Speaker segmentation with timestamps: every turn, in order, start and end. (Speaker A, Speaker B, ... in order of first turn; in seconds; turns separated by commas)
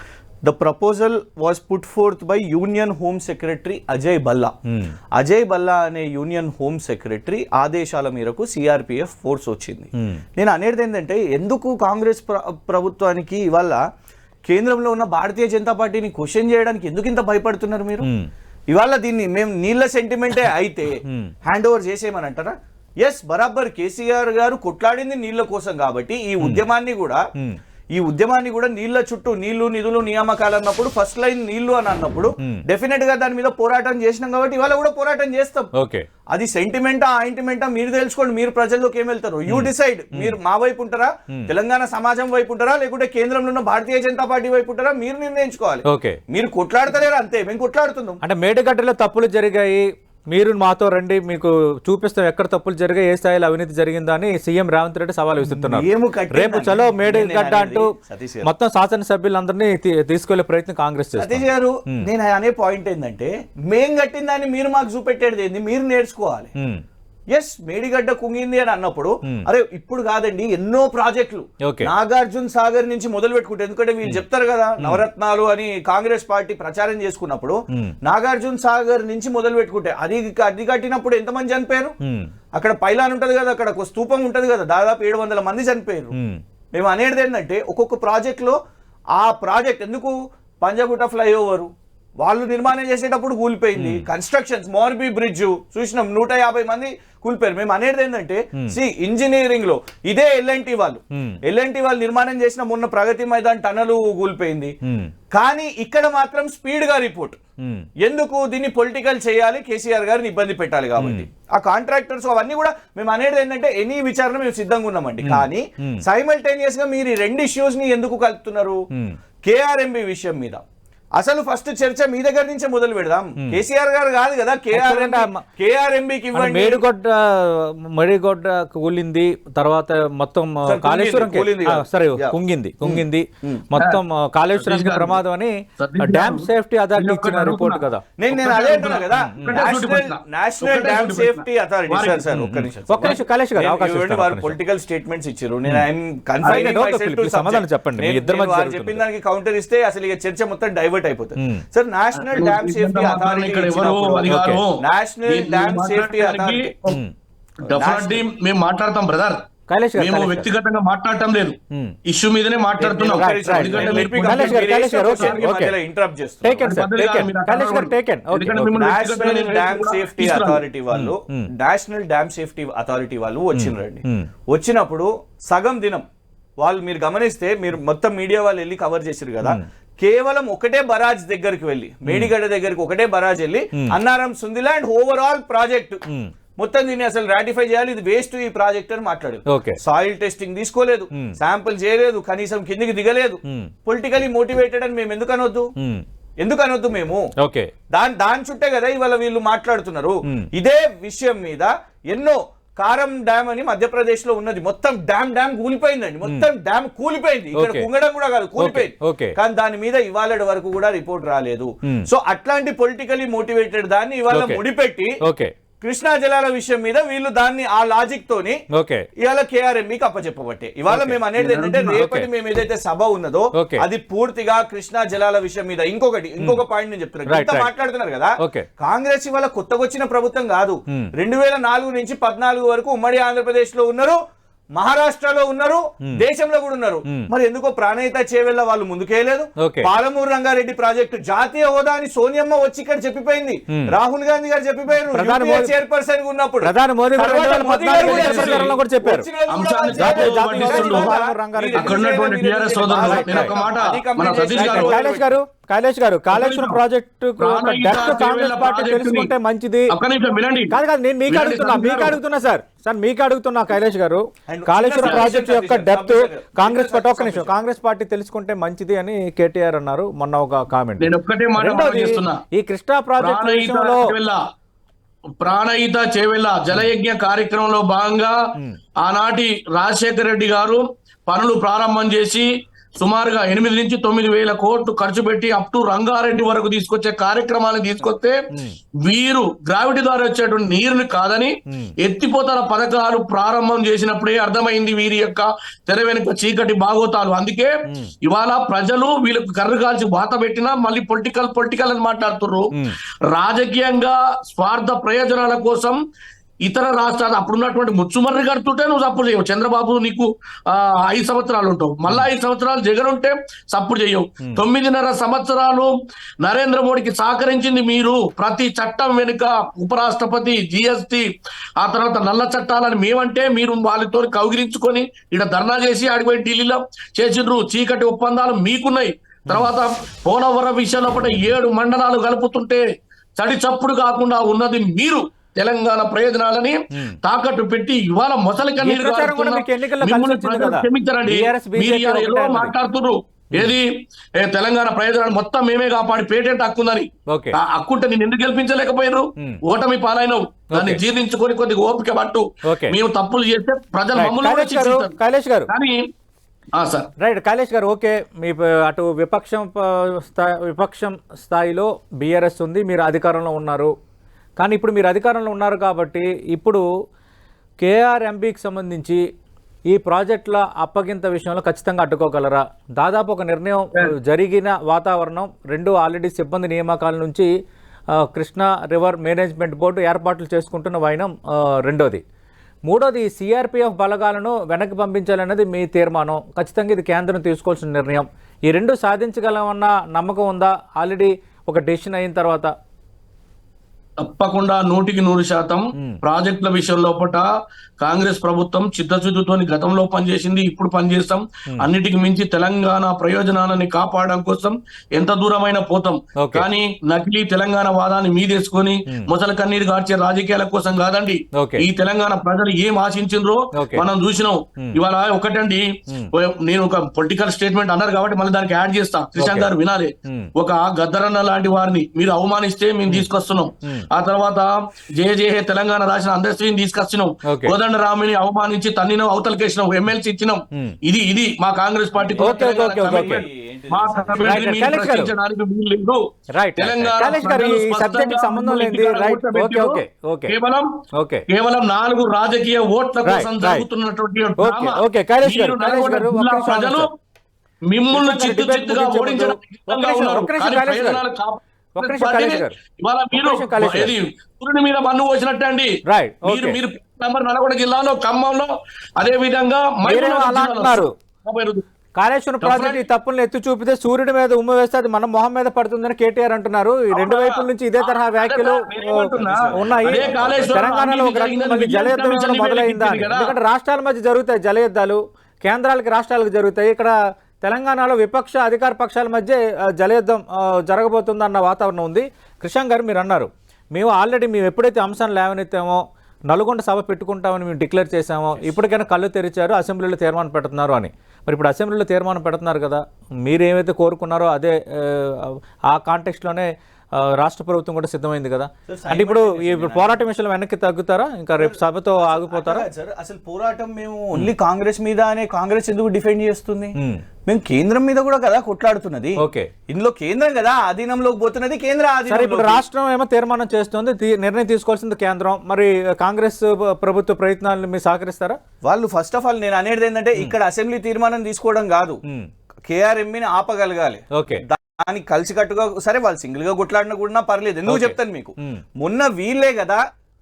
Speaker A: 0.4-4.5, Speaker A: 5.1-13.8, Speaker A: 14.5-18.1, Speaker A: 18.7-27.2, Speaker B: 21.1-21.3, Speaker A: 27.9-35.7, Speaker B: 35.7-36.0, Speaker A: 36.3-48.2, Speaker B: 39.5-40.3, Speaker B: 45.9-46.2, Speaker B: 48.2-57.9, Speaker A: 55.5-58.5, Speaker B: 58.4-62.0, Speaker A: 61.2-66.5, Speaker A: 67.3-81.9, Speaker B: 71.6-71.9, Speaker B: 74.8-75.0, Speaker B: 82.0-82.3, Speaker A: 82.5-86.1, Speaker B: 86.1-86.4, Speaker A: 86.7-88.6, Speaker A: 89.2-104.7, Speaker B: 93.7-94.1, Speaker B: 101.1-101.4, Speaker A: 105.3-107.4, Speaker A: 108.0-118.8, Speaker B: 111.0-111.2, Speaker B: 115.2-116.0, Speaker A: 119.4-120.6, Speaker A: 121.2-126.8, Speaker B: 124.7-125.4, Speaker B: 126.3-138.0, Speaker A: 130.7-133.7, Speaker C: 134.5-135.2, Speaker C: 135.8-142.3, Speaker A: 138.2-156.7, Speaker B: 139.2-139.6, Speaker B: 142.3-144.6, Speaker B: 146.4-149.0, Speaker C: 152.1-157.0, Speaker B: 154.3-154.6, Speaker A: 157.6-158.2, Speaker C: 157.6-165.4, Speaker B: 159.7-160.5, Speaker A: 162.8-166.7, Speaker B: 163.1-165.7, Speaker B: 166.4-168.8, Speaker C: 166.6-170.6, Speaker A: 168.7-176.1, Speaker B: 170.9-171.5, Speaker B: 173.5-174.3, Speaker A: 176.6-186.0, Speaker B: 182.1-182.3, Speaker A: 186.6-195.7, Speaker B: 189.5-189.8, Speaker B: 195.8-196.0, Speaker A: 196.4-197.2, Speaker B: 197.4-197.7, Speaker A: 197.9-215.2, Speaker B: 207.5-207.9, Speaker B: 208.6-209.3, Speaker B: 214.3-214.6, Speaker B: 215.2-215.5, Speaker A: 215.8-218.6, Speaker B: 218.7-219.1, Speaker A: 219.2-234.2, Speaker B: 220.9-222.3, Speaker B: 223.5-223.8, Speaker B: 227.3-227.7, Speaker B: 228.4-228.7, Speaker A: 234.8-255.3, Speaker B: 239.6-239.9, Speaker B: 245.1-245.7, Speaker B: 246.6-249.2, Speaker C: 247.9-248.7, Speaker C: 249.5-251.1, Speaker B: 249.9-252.0, Speaker C: 251.7-255.0, Speaker B: 253.1-253.5, Speaker B: 254.4-259.9, Speaker C: 256.3-256.8, Speaker C: 257.4-259.3, Speaker C: 259.9-260.7, Speaker B: 260.7-274.1, Speaker C: 261.3-262.2, Speaker A: 264.5-267.5, Speaker C: 271.0-272.4, Speaker C: 273.2-274.4, Speaker C: 275.4-278.4, Speaker C: 279.0-288.4, Speaker B: 288.5-288.8, Speaker C: 289.0-302.7, Speaker B: 297.9-298.1, Speaker C: 303.3-306.0, Speaker C: 306.6-332.8, Speaker C: 333.4-355.1, Speaker B: 338.8-342.7, Speaker B: 347.3-347.6, Speaker B: 350.7-351.0, Speaker B: 352.6-352.9, Speaker B: 354.2-355.7, Speaker C: 355.7-356.1, Speaker C: 356.8-357.1, Speaker B: 357.2-363.9, Speaker B: 364.6-366.8, Speaker B: 367.8-369.2, Speaker B: 369.9-377.5, Speaker B: 378.1-382.2, Speaker B: 382.9-392.7, Speaker C: 394.2-397.5, Speaker C: 398.0-436.2, Speaker B: 406.4-406.6, Speaker B: 411.5-411.9, Speaker B: 413.7-414.0, Speaker B: 419.4-419.7, Speaker B: 427.4-427.7, Speaker A: 432.2-434.7, Speaker B: 432.4-433.4, Speaker B: 434.4-435.3, Speaker B: 436.5-440.5, Speaker C: 436.8-441.0, Speaker B: 441.1-441.4, Speaker C: 441.5-447.1, Speaker B: 443.2-443.8, Speaker B: 444.6-447.1, Speaker C: 447.9-461.8, Speaker B: 448.1-451.2, Speaker B: 451.9-452.7, Speaker B: 453.3-454.1, Speaker B: 456.1-456.8, Speaker B: 460.0-461.1, Speaker B: 462.2-502.8, Speaker C: 462.6-463.0, Speaker C: 467.1-473.6, Speaker A: 470.0-470.5, Speaker A: 498.9-500.2, Speaker A: 501.6-506.9, Speaker B: 507.0-507.2, Speaker A: 507.5-512.8, Speaker B: 509.4-509.7, Speaker B: 512.3-518.6, Speaker A: 518.8-522.2, Speaker A: 522.9-530.0, Speaker B: 524.3-524.6, Speaker B: 527.9-528.8